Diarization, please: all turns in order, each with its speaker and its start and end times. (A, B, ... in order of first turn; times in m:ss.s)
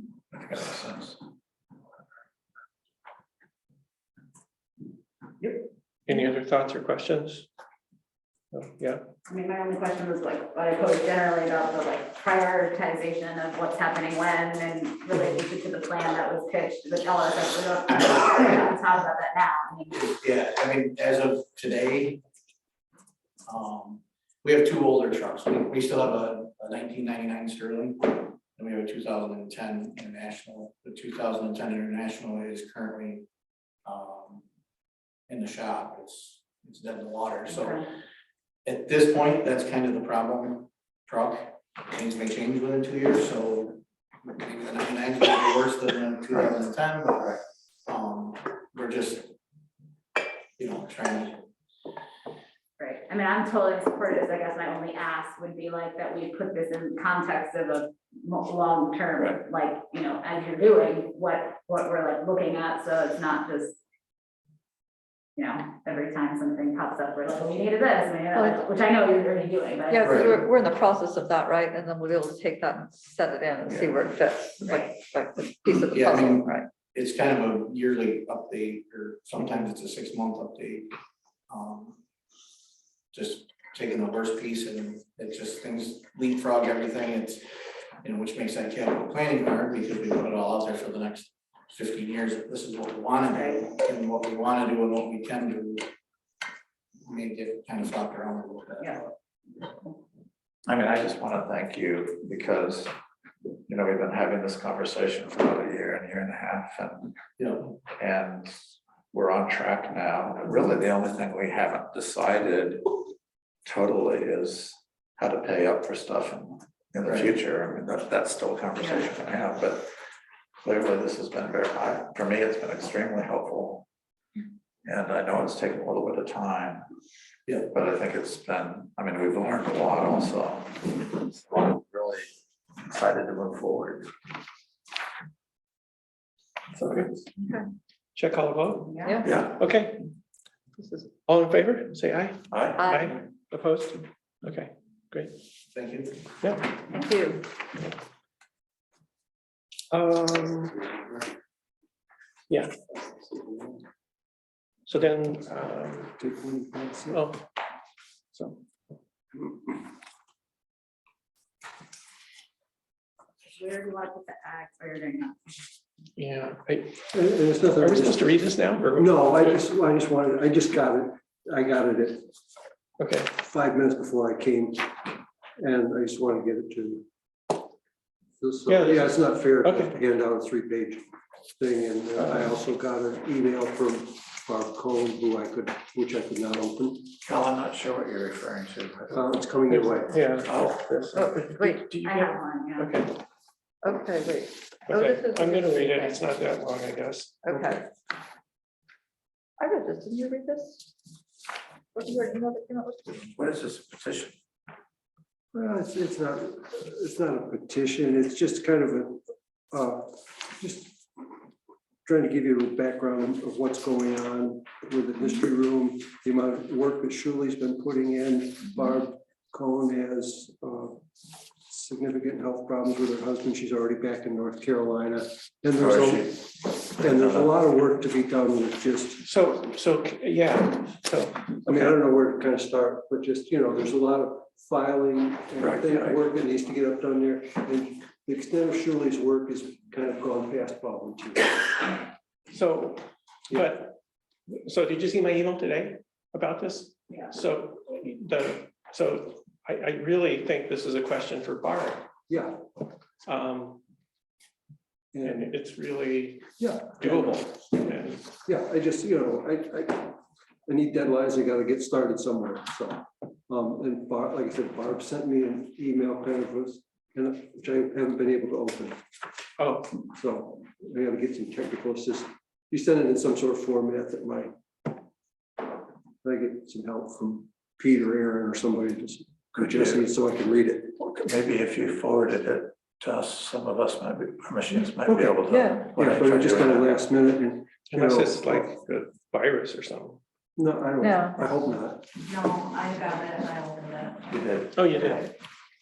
0:00.3-0:01.2 A
0:06.1-0:07.5 B
0:08.5-0:09.1 B
0:09.3-0:20.0 C
0:19.9-0:22.2 D
0:23.5-0:33.2 D
0:33.8-0:34.4 D
0:35.3-0:37.8 D
0:37.5-0:37.8 C
0:38.6-0:49.3 D
0:50.6-0:51.4 D
0:52.8-1:03.8 C
1:05.4-1:10.4 C
1:08.3-1:08.6 E
1:09.9-1:16.7 E
1:10.0-1:10.4 D
1:13.7-1:14.0 D
1:14.6-1:15.0 C
1:15.9-1:20.9 D
1:21.5-1:22.0 D
1:23.1-1:27.4 D
1:28.0-1:35.9 D
1:33.3-1:33.6 C
1:37.0-1:39.1 D
1:40.7-1:42.9 A
1:43.7-1:47.1 A
1:47.4-1:47.7 D
1:48.0-1:48.6 A
1:49.1-1:52.9 A
1:53.6-1:59.9 A
1:57.1-1:57.3 D
2:00.6-2:03.9 A
2:04.8-2:06.8 A
2:07.5-2:07.7 D
2:07.7-2:12.3 A
2:12.8-2:14.1 A
2:16.8-2:17.1 B
2:18.2-2:19.0 B
2:18.9-2:19.3 C
2:19.0-2:19.5 E
2:19.2-2:19.5 A
2:19.6-2:20.0 B
2:20.8-2:21.1 E
2:21.2-2:22.4 B
2:22.5-2:22.8 A
2:22.8-2:23.2 E
2:22.9-2:25.3 B
2:25.7-2:26.2 D
2:26.9-2:27.5 E
2:29.9-2:30.8 B
2:32.5-2:33.0 B
2:34.9-2:36.1 B
2:36.2-2:37.2 F
2:37.1-2:37.4 B
2:38.3-2:38.6 B
2:43.4-2:45.7 C
2:46.2-2:47.0 B
2:47.1-2:48.3 F
2:47.8-2:49.6 B
2:49.0-2:52.4 F
2:53.0-2:53.3 B
2:53.4-2:57.0 F
2:58.4-3:01.0 F
2:58.7-2:59.9 B
3:01.6-3:07.2 F
3:07.2-3:09.5 A
3:09.1-3:10.1 F
3:09.8-3:13.1 B
3:10.5-3:11.1 A
3:11.2-3:12.0 E
3:12.0-3:13.0 C
3:13.8-3:16.2 E
3:14.9-3:17.4 B
3:17.5-3:17.8 E
3:19.6-3:20.9 E
3:22.0-3:23.2 E
3:23.2-3:24.4 A
3:25.5-3:31.2 F
3:32.0-3:41.0 F
3:41.6-3:49.2 F
3:45.8-3:46.3 A
3:47.0-3:47.5 A
3:49.2-3:52.0 B
3:51.7-4:01.9 F
3:55.6-3:55.9 A
4:02.5-4:03.0 B
4:03.5-4:04.0 B
4:04.5-4:12.1 B
4:07.1-4:07.4 C
4:12.3-4:12.6 F
4:13.3-4:13.8 B
4:15.1-4:15.5 F
4:15.2-4:16.5 B
4:16.6-4:17.5 F
4:17.0-4:18.2 B
4:18.4-4:29.0 F
4:29.6-4:29.9 B
4:30.1-4:34.5 F
4:36.2-4:41.0 F
4:39.6-4:40.1 A
4:41.0-4:47.0 A
4:45.0-4:48.8 F
4:45.5-4:45.9 E
4:47.9-4:50.2 B
4:50.6-4:52.1 F
4:51.0-4:51.4 E
4:52.2-4:54.3 C
4:54.3-4:54.7 A
4:54.7-4:55.2 B